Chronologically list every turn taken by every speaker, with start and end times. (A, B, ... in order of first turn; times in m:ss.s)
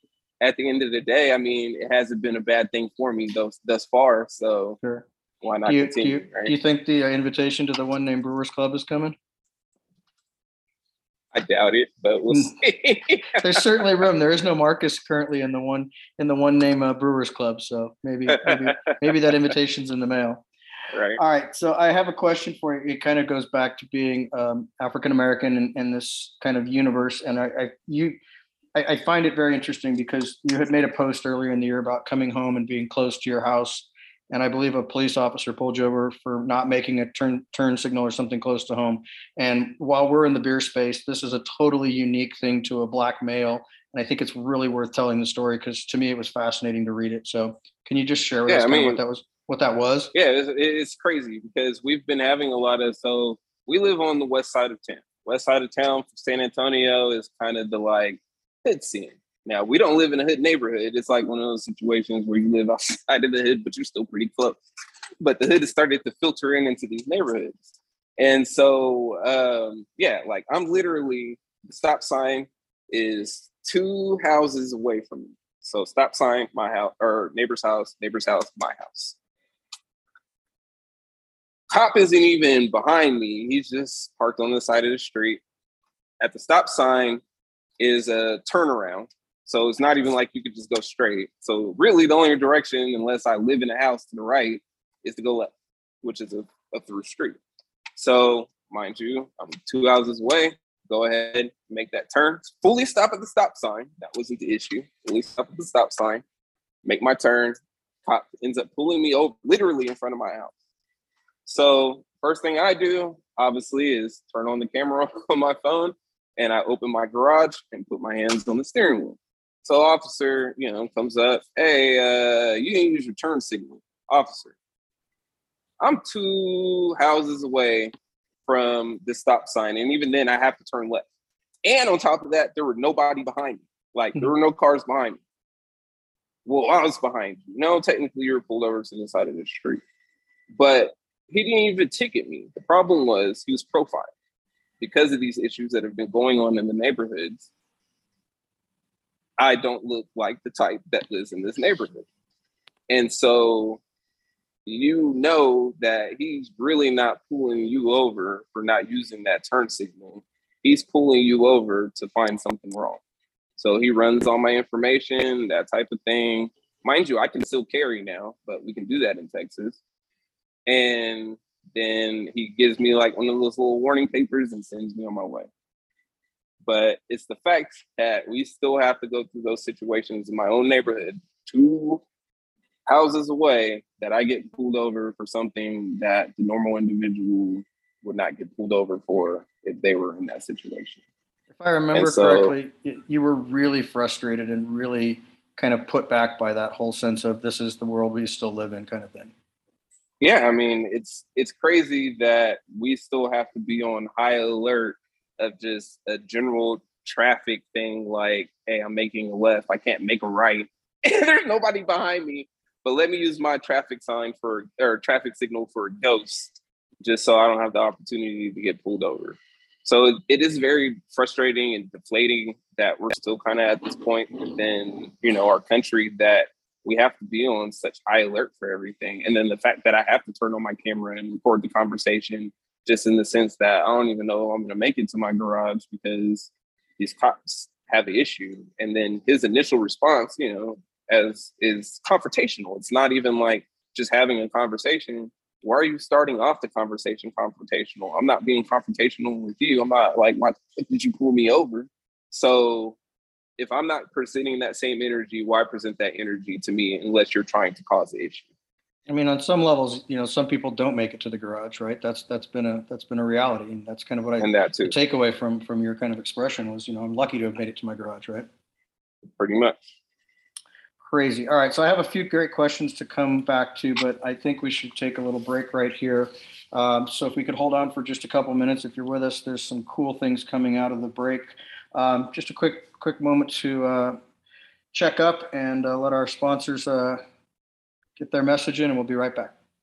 0:00.4-0:04.8 A
0:04.8-0:05.1 B
0:05.4-0:06.5 A
0:05.7-0:09.2 B
0:11.3-0:13.6 A
0:12.3-0:12.6 B
0:13.3-0:20.4 B
0:20.9-0:21.2 A
0:21.2-0:28.2 B
0:28.8-0:50.1 B
0:48.5-0:49.0 A
0:50.1-1:04.6 A
1:05.2-1:07.6 A
1:08.2-1:19.2 A
1:21.7-1:25.4 A
1:26.2-1:27.2 A
1:27.8-1:35.5 A
1:36.0-1:37.4 A
1:38.0-1:46.2 A
1:46.8-1:50.5 A
1:51.5-2:04.6 A
2:05.8-2:07.9 A
2:08.5-2:11.1 A
2:11.6-2:15.2 A
2:16.5-2:19.8 A
2:20.5-2:24.1 A
2:24.8-2:27.5 A
2:29.4-2:32.1 A
2:32.9-2:33.8 A
2:34.7-2:43.0 A
2:43.6-2:49.8 A
2:50.7-2:55.5 A
2:56.6-3:02.0 A
3:02.9-3:11.0 A
3:11.6-3:19.3 B
3:11.9-3:12.5 A
3:20.2-4:13.0 A
4:13.6-4:18.5 A
4:19.1-4:28.5 B
4:24.4-4:25.0 A
4:29.4-4:29.8 A
4:31.0-4:44.2 B
4:44.9-4:47.2 B
4:48.2-4:49.5 B